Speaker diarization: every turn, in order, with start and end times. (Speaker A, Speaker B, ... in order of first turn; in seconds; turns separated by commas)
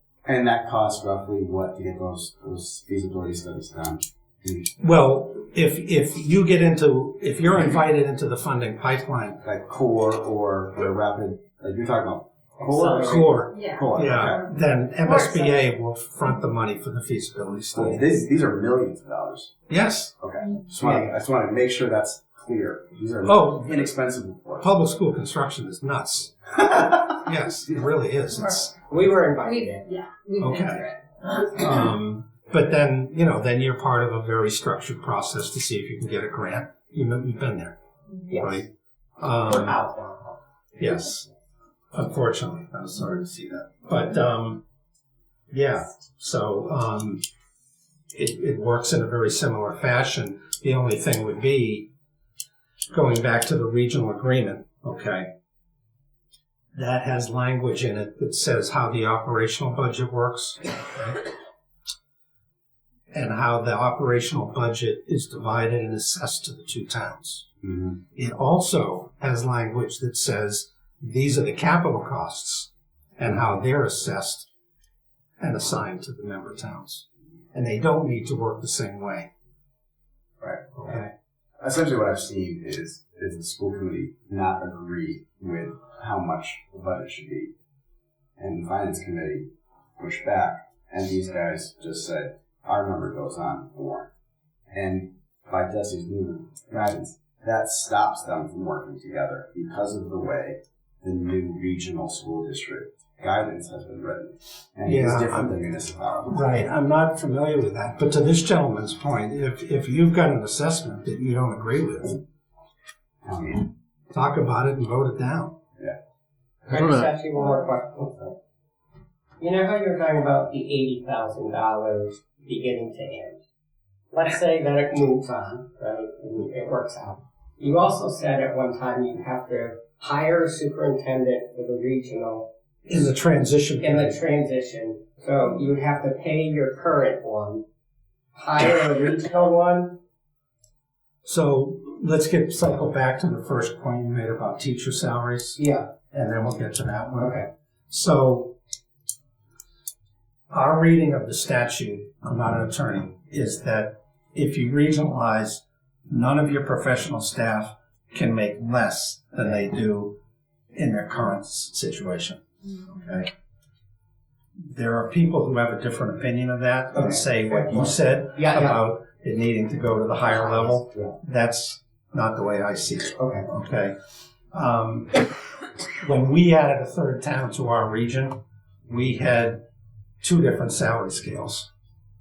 Speaker A: 0.2-4.7, Speaker B: 4.8-9.4, Speaker A: 9.4-14.5, Speaker C: 12.6-13.3, Speaker B: 13.0-18.1, Speaker D: 13.5-14.0, Speaker D: 15.0-15.5, Speaker A: 17.7-19.5, Speaker B: 19.7-20.1, Speaker A: 20.2-24.7, Speaker C: 20.8-21.1, Speaker B: 23.2-23.8, Speaker B: 24.6-28.8, Speaker C: 28.9-30.1, Speaker D: 29.5-30.9, Speaker B: 30.4-30.9, Speaker B: 31.5-37.8, Speaker C: 38.3-38.6, Speaker B: 38.3-38.7, Speaker B: 39.2-39.8, Speaker C: 39.5-40.4, Speaker B: 40.8-41.3, Speaker B: 41.9-44.6, Speaker B: 45.5-47.2, Speaker B: 48.1-51.9, Speaker B: 52.9-55.3, Speaker B: 56.8-61.3, Speaker B: 63.1-67.5, Speaker A: 67.6-68.0, Speaker B: 68.1-74.5, Speaker B: 75.4-79.3, Speaker A: 80.4-81.1, Speaker B: 80.8-81.1, Speaker A: 81.6-87.5, Speaker A: 88.4-94.1, Speaker A: 94.7-106.5, Speaker B: 104.8-105.5, Speaker B: 106.3-112.2, Speaker A: 113.2-113.7, Speaker B: 114.1-115.6, Speaker C: 116.7-118.4, Speaker C: 119.4-123.4, Speaker C: 124.1-132.5, Speaker B: 132.9-134.2, Speaker C: 133.8-137.6, Speaker C: 138.4-140.0, Speaker B: 141.2-148.5, Speaker C: 145.6-145.9, Speaker C: 147.2-147.5, Speaker B: 150.5-160.2, Speaker B: 160.7-163.3, Speaker B: 164.7-173.9, Speaker C: 167.0-168.8, Speaker C: 170.2-171.2, Speaker C: 173.2-173.5, Speaker B: 174.5-175.2, Speaker B: 176.0-179.6, Speaker B: 180.2-181.7